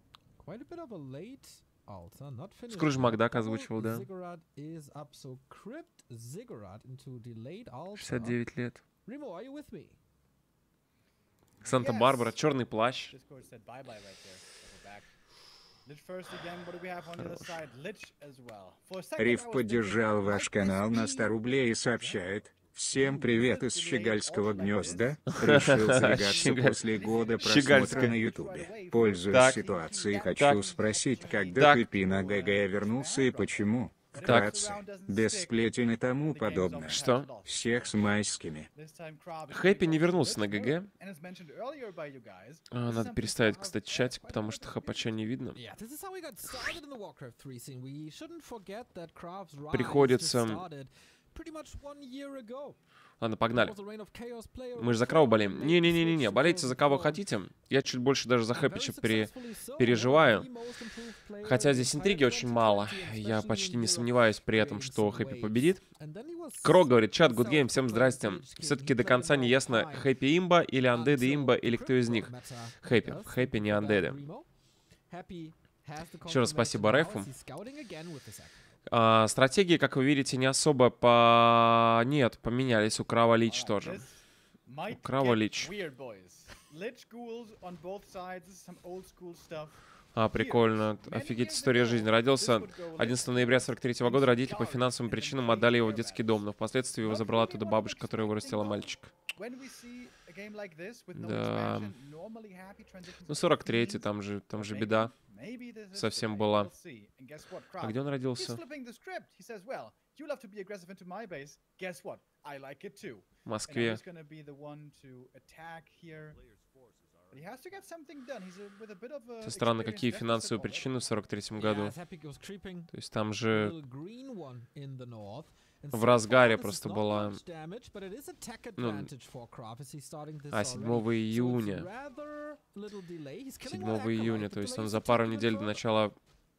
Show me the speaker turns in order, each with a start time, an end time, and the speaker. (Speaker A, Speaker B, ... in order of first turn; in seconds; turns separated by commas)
Speaker A: 0.4-8.4, Speaker B: 2.7-4.1, Speaker B: 8.0-8.8, Speaker A: 9.0-10.0, Speaker C: 11.6-12.3, Speaker B: 11.6-13.1, Speaker C: 13.1-15.1, Speaker C: 15.8-22.3, Speaker B: 17.1-17.6, Speaker D: 19.2-38.7, Speaker C: 22.9-38.2, Speaker B: 25.3-28.2, Speaker B: 29.3-29.6, Speaker B: 30.3-30.6, Speaker B: 31.5-31.9, Speaker B: 34.2-34.5, Speaker B: 36.9-37.3, Speaker C: 38.7-45.1, Speaker B: 39.5-40.9, Speaker B: 42.7-45.6, Speaker A: 45.5-52.8, Speaker B: 49.7-50.6, Speaker B: 53.2-53.7, Speaker A: 53.5-57.2, Speaker B: 54.8-60.5, Speaker A: 58.5-70.1, Speaker B: 61.4-65.8, Speaker B: 66.6-72.3, Speaker A: 70.9-74.5, Speaker B: 72.8-74.2, Speaker A: 75.1-78.7, Speaker B: 76.3-77.3, Speaker B: 78.9-84.0, Speaker C: 83.4-89.8, Speaker B: 84.9-85.7, Speaker B: 90.2-99.1, Speaker C: 90.3-96.4, Speaker C: 97.0-116.4, Speaker B: 101.1-101.9, Speaker B: 103.3-105.1, Speaker B: 105.9-106.7, Speaker B: 107.8-108.6, Speaker B: 113.4-114.0, Speaker C: 117.3-121.0, Speaker B: 119.4-122.0, Speaker A: 121.6-122.9, Speaker B: 122.9-123.7, Speaker A: 123.5-135.8, Speaker B: 125.9-127.4, Speaker B: 128.8-129.1, Speaker B: 130.5-131.8, Speaker B: 133.6-136.2